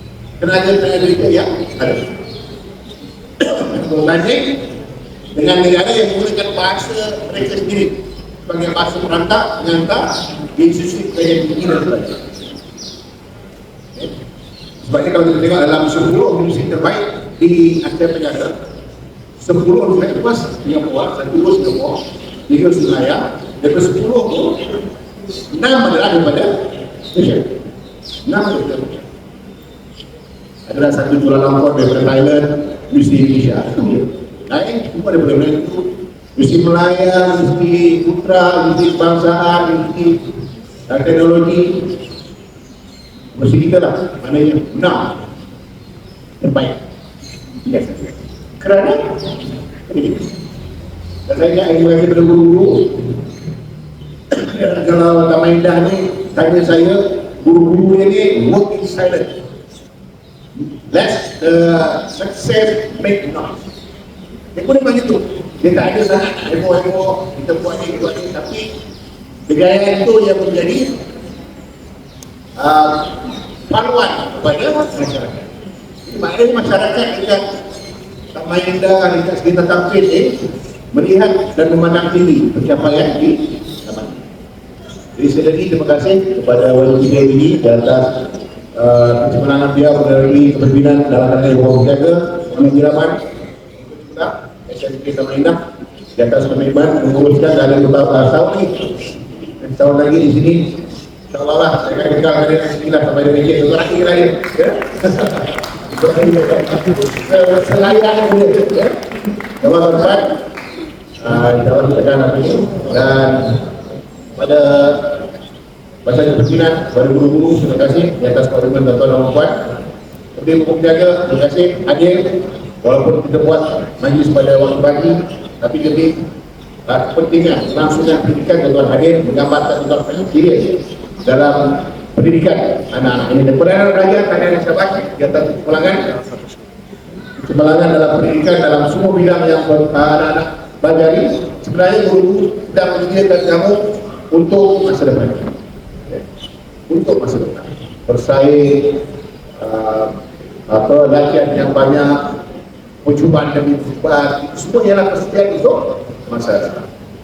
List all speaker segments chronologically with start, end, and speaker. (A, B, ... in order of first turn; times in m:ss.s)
0:00.4-0:02.2 A
0:03.4-0:04.7 A
0:05.3-0:12.3 A
0:14.8-0:18.6 A
0:19.4-0:24.8 A
0:25.5-0:27.6 A
0:28.2-0:29.1 A
0:30.7-0:40.3 A
0:40.9-0:42.0 A
0:43.3-0:45.2 A
0:46.4-0:46.8 A
0:47.6-0:50.3 A
0:51.3-0:53.1 A
0:54.3-0:59.4 A
1:00.7-1:03.6 A
1:04.6-1:08.7 A
1:09.5-1:11.0 A
1:12.6-1:15.5 A
1:16.0-1:17.6 A
1:18.3-1:24.2 A
1:25.2-1:33.2 A
1:33.8-1:50.4 A
1:51.2-1:53.7 A
1:54.4-1:55.3 A
1:56.0-1:59.8 A
2:00.3-2:06.3 A
2:06.9-2:16.2 A
2:17.4-2:26.2 A
2:26.9-2:29.1 A
2:29.6-2:30.2 A
2:30.7-2:32.4 A
2:33.0-2:36.9 A